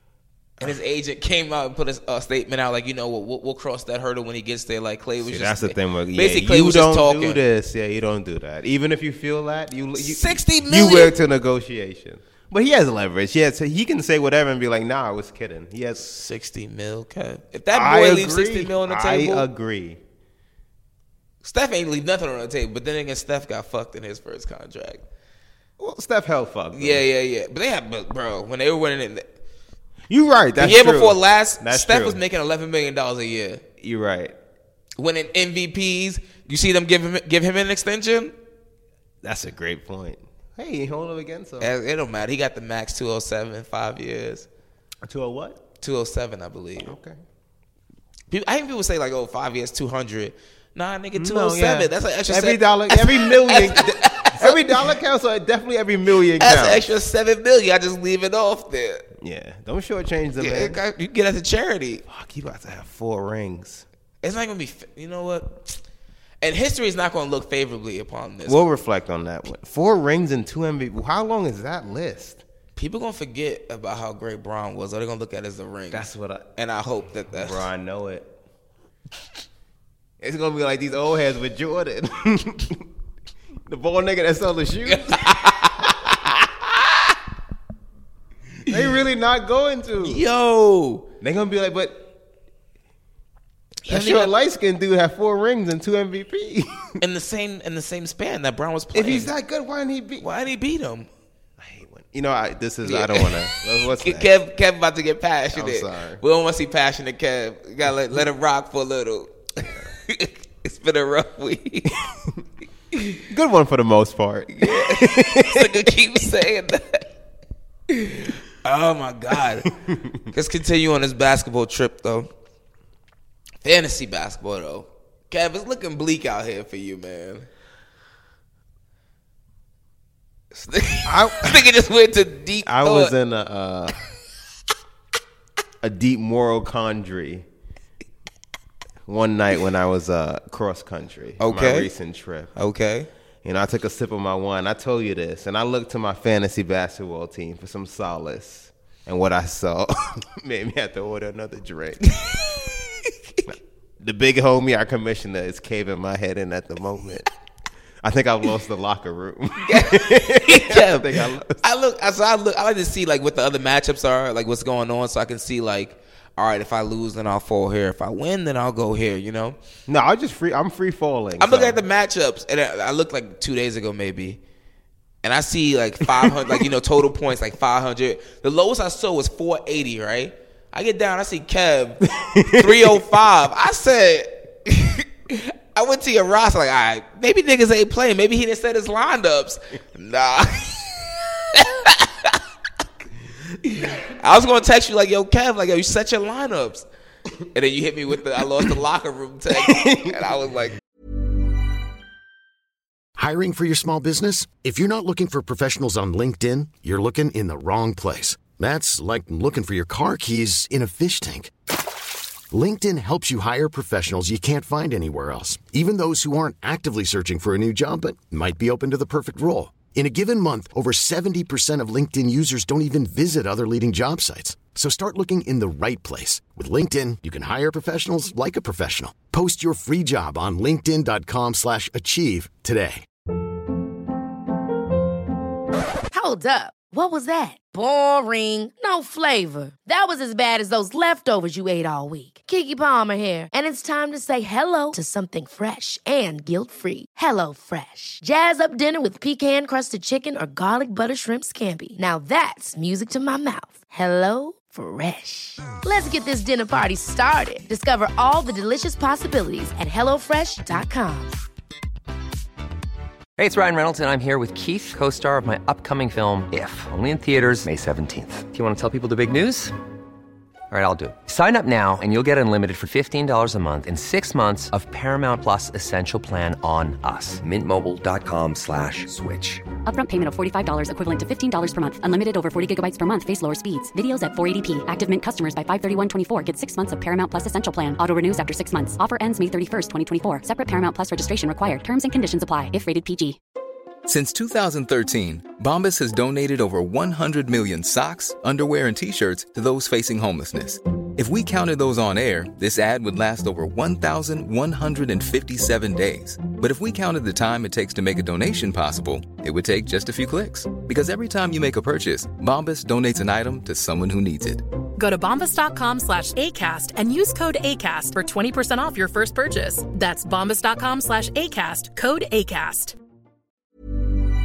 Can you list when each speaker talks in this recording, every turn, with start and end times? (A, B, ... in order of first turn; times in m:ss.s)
0:00.6-0:07.4 A
0:05.2-0:16.0 B
0:10.0-0:11.2 A
0:16.0-0:19.5 A
0:17.7-0:20.0 B
0:21.4-0:25.0 A
0:25.8-0:27.0 B
0:26.7-0:29.3 A
0:30.1-0:32.2 B
0:30.6-0:33.6 A
0:33.8-0:34.4 B
0:35.0-0:38.3 A
0:39.2-0:41.7 B
0:41.6-0:44.5 A
0:45.0-0:45.6 B
0:45.8-0:47.0 A
0:46.8-0:47.2 B
0:48.3-0:54.9 A
0:51.2-0:57.0 B
0:56.3-0:59.0 A
0:59.2-1:00.8 B
1:00.4-1:02.0 A
1:02.1-1:03.8 B
1:04.2-1:05.8 A
1:06.4-1:08.6 A
1:08.4-1:12.4 B
1:12.8-1:17.7 A
1:15.9-1:16.5 B
1:17.3-1:18.3 B
1:20.2-1:22.8 B
1:23.7-1:25.9 B
1:24.9-1:27.1 A
1:28.7-1:30.2 B
1:30.0-1:31.1 A
1:31.2-1:32.1 B
1:33.9-1:34.3 A
1:33.9-1:37.0 B
1:37.0-1:39.3 A
1:38.9-1:40.3 B
1:40.2-1:41.1 A
1:41.6-1:44.3 B
1:42.8-1:52.0 A
1:45.5-1:46.2 B
1:53.3-1:55.9 B
1:54.6-1:57.1 A
1:57.9-1:59.7 A
1:59.7-2:00.2 B
2:00.3-2:02.3 A
2:03.6-2:07.5 A
2:10.5-2:13.1 A
2:11.1-2:11.7 B
2:12.7-2:14.0 B
2:15.8-2:17.5 B
2:19.1-2:22.5 B
2:21.4-2:21.9 A
2:22.6-2:23.1 A
2:23.4-2:32.0 B
2:32.2-2:33.1 A
2:34.0-2:37.3 B
2:38.0-2:41.6 B
2:39.6-2:49.6 A
2:49.9-2:51.8 B
2:51.4-2:54.4 A
2:55.2-3:12.4 A
2:56.2-2:56.6 B
3:02.2-3:03.0 B
3:13.7-3:16.9 A
3:17.5-3:20.8 A
3:19.5-3:20.2 B
3:23.2-3:31.5 C
3:32.5-3:53.1 C
3:56.1-4:21.3 D
4:23.4-4:29.7 E
4:30.7-4:39.7 E
4:39.8-4:53.4 F
4:54.1-5:14.6 G
5:15.0-5:23.0 H